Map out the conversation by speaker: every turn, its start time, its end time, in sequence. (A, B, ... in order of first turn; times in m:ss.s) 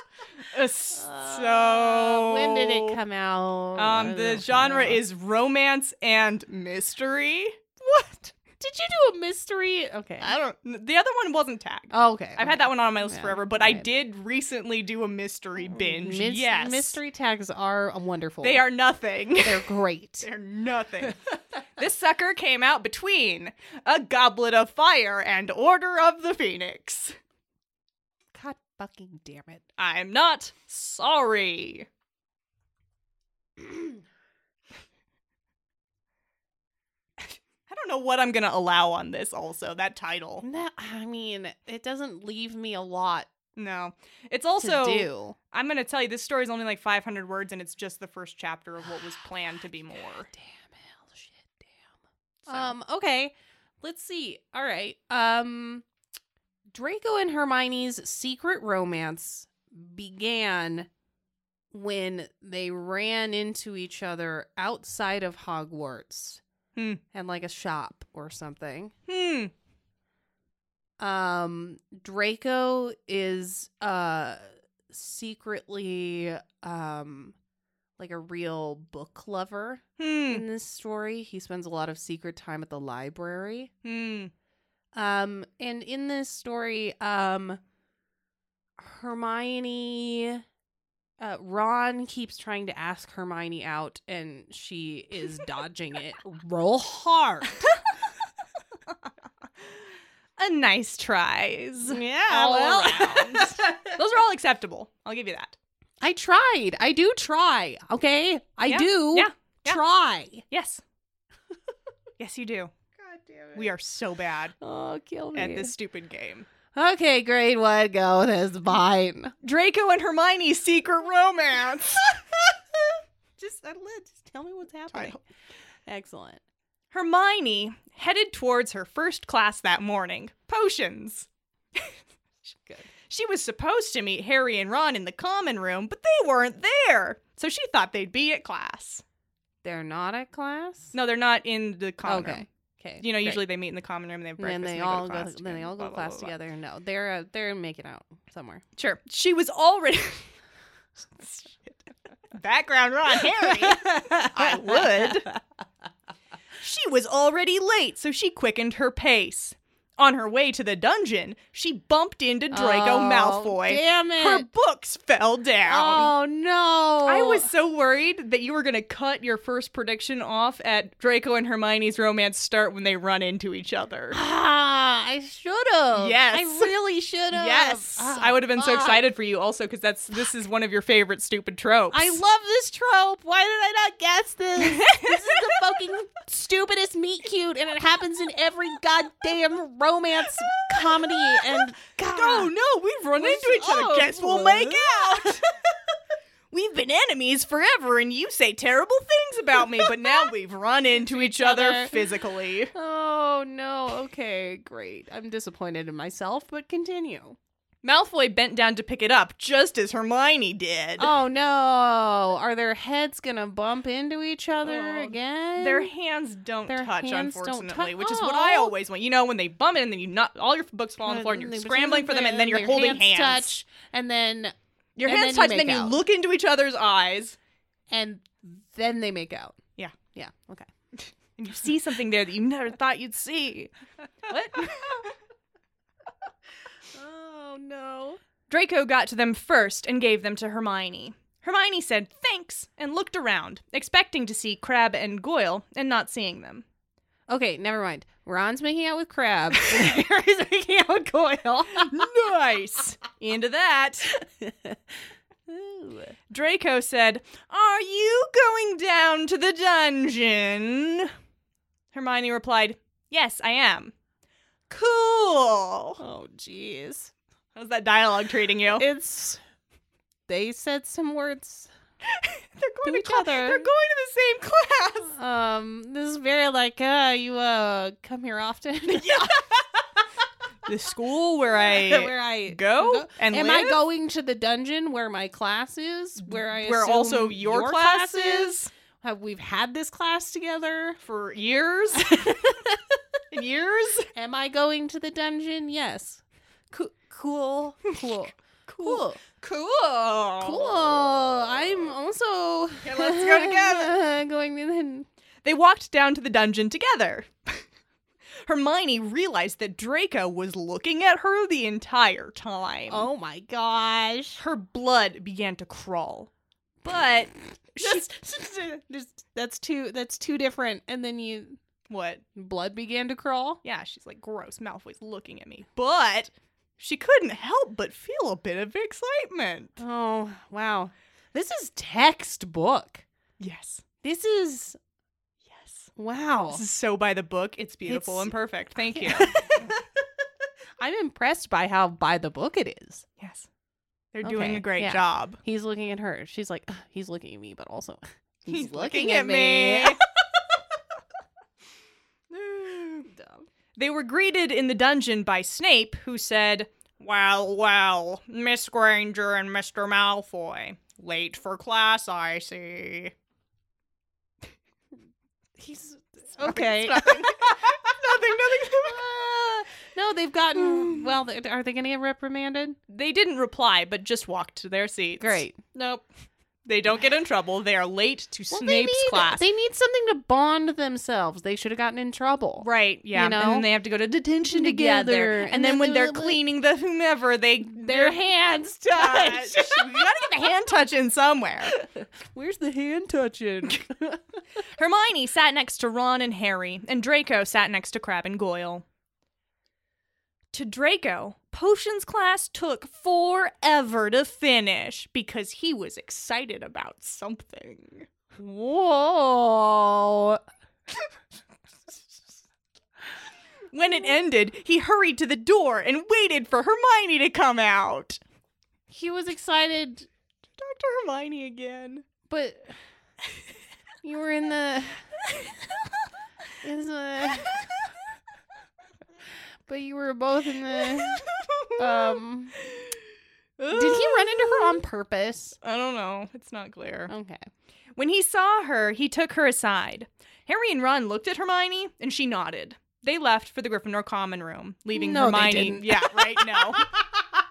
0:00.4-0:03.0 A
0:00.9-0:05.0 B
0:03.8-0:07.8 A
0:07.8-0:10.3 B
0:10.2-0:17.0 A
0:11.9-0:13.9 B
0:15.6-0:18.6 B
0:18.4-0:27.2 A
0:19.4-0:20.3 B
0:28.3-0:29.6 B
0:29.8-0:31.9 A
0:33.6-0:34.0 B
0:37.7-0:40.4 A
0:40.4-0:43.3 B
0:43.6-0:50.3 A
0:44.6-0:45.4 B
0:50.3-0:51.9 B
0:52.5-0:52.7 A
0:52.5-0:55.9 B
0:56.7-1:00.9 B
1:01.7-1:06.4 B
1:06.8-1:07.0 A
1:07.1-1:08.9 B
1:09.1-1:09.5 A
1:11.0-1:17.4 B
1:18.0-1:23.7 B
1:20.0-1:20.4 A
1:23.8-1:24.3 A
1:24.9-1:27.6 B
1:28.8-1:30.4 B
1:31.2-1:37.7 B
1:40.4-1:45.6 A
1:41.8-1:44.0 B
1:46.0-1:50.4 B
1:48.7-1:49.8 A
1:50.5-1:50.8 A
1:52.2-1:52.8 A
1:53.0-1:53.7 B
1:53.5-1:54.6 A
1:54.6-1:55.7 B
1:55.3-1:56.5 A
1:56.7-1:59.4 B
1:59.4-2:02.2 A
2:03.4-2:05.2 B
2:04.9-2:05.2 A
2:05.9-2:06.4 B
2:06.9-2:12.0 A
2:12.5-2:12.9 B
2:13.1-2:19.0 A
2:19.6-2:20.9 B
2:20.9-2:22.5 A
2:22.0-2:23.4 B
2:23.0-2:26.4 A
2:24.4-2:28.6 B
2:28.8-2:30.4 A
2:31.2-2:31.8 A
2:32.3-2:35.3 A
2:33.2-2:35.4 B
2:36.6-2:46.1 A
2:42.5-2:44.5 B
2:45.6-2:47.5 B
2:47.0-2:54.2 A
2:54.1-2:59.0 B
2:55.9-2:56.7 A
2:57.3-3:02.2 A
3:01.9-3:12.5 B
3:04.6-3:05.5 A
3:10.8-3:15.5 A
3:13.1-3:15.4 B
3:16.5-3:22.7 A
3:19.6-3:20.3 B
3:21.0-3:22.2 B
3:22.7-3:27.4 B
3:27.8-3:31.1 A
3:31.0-3:35.9 B
3:34.6-3:43.6 A
3:36.7-3:38.7 B
3:41.0-3:46.0 B
3:45.0-3:47.4 A
3:47.9-3:49.6 B
3:50.1-3:50.7 B
3:51.4-3:53.7 A
3:54.3-3:55.1 B
3:54.3-3:55.1 A
3:56.9-3:58.2 B
3:58.5-4:06.7 A
4:07.3-4:12.0 B
4:11.7-4:14.1 A
4:14.1-4:14.8 B
4:15.5-4:16.2 B
4:16.3-4:21.1 A
4:21.9-4:23.9 A
4:24.7-4:26.0 A
4:26.0-4:27.1 B
4:27.6-4:28.9 A
4:28.7-4:29.4 B
4:30.3-4:31.7 B
4:32.0-4:35.2 A
4:32.8-4:33.7 B
4:35.1-4:39.4 B
4:38.9-4:39.6 A
4:40.6-4:43.8 A
4:41.5-4:51.0 B
4:46.2-4:48.7 A
4:51.0-4:52.3 A
4:51.9-4:53.0 B
4:53.3-4:54.1 A
4:54.2-4:59.2 B
4:57.9-5:00.8 A
5:00.4-5:05.1 B
5:02.8-5:04.0 A
5:05.4-5:07.6 A
5:08.5-5:13.1 A
5:12.9-5:14.4 B
5:14.4-5:16.3 A
5:16.8-5:18.1 A
5:17.8-5:21.6 B
5:21.9-5:22.2 A
5:22.4-5:23.6 B
5:23.6-5:29.8 A
5:29.8-5:33.0 B
5:33.4-5:33.8 A
5:34.0-5:34.8 B
5:35.5-5:35.9 A
5:36.0-5:36.6 B
5:36.5-5:39.5 A
5:37.9-5:38.4 B
5:38.9-5:39.9 B
5:40.8-5:43.0 B
5:43.2-5:43.5 A
5:44.1-5:45.4 A
5:44.2-5:50.0 B
5:48.5-5:50.0 A
5:52.3-5:53.1 A
5:53.1-5:53.4 B
5:53.8-6:03.2 A
6:05.6-6:07.8 B
6:06.4-6:09.6 A
6:08.7-6:12.8 B
6:10.6-6:11.1 A
6:12.9-6:16.0 A
6:15.2-6:15.6 B
6:16.7-6:19.4 A
6:18.5-6:23.7 B
6:22.6-6:28.2 A
6:24.5-6:26.4 B
6:27.7-6:30.6 B
6:28.9-6:31.7 A
6:31.6-6:34.4 B
6:34.6-6:38.8 A
6:40.5-6:48.1 A
6:48.3-6:50.4 B
6:53.7-6:58.2 A
6:58.9-7:00.1 B
7:00.6-7:02.1 A
7:02.3-7:02.8 B
7:04.0-7:05.1 B
7:06.6-7:07.7 B
7:07.4-7:07.8 A
7:09.7-7:11.3 B
7:10.9-7:13.0 A
7:11.8-7:12.5 B
7:13.6-7:14.8 A
7:13.7-7:15.6 B
7:15.6-7:17.1 A
7:17.1-7:17.5 B
7:18.0-7:26.9 A
7:24.9-7:27.2 B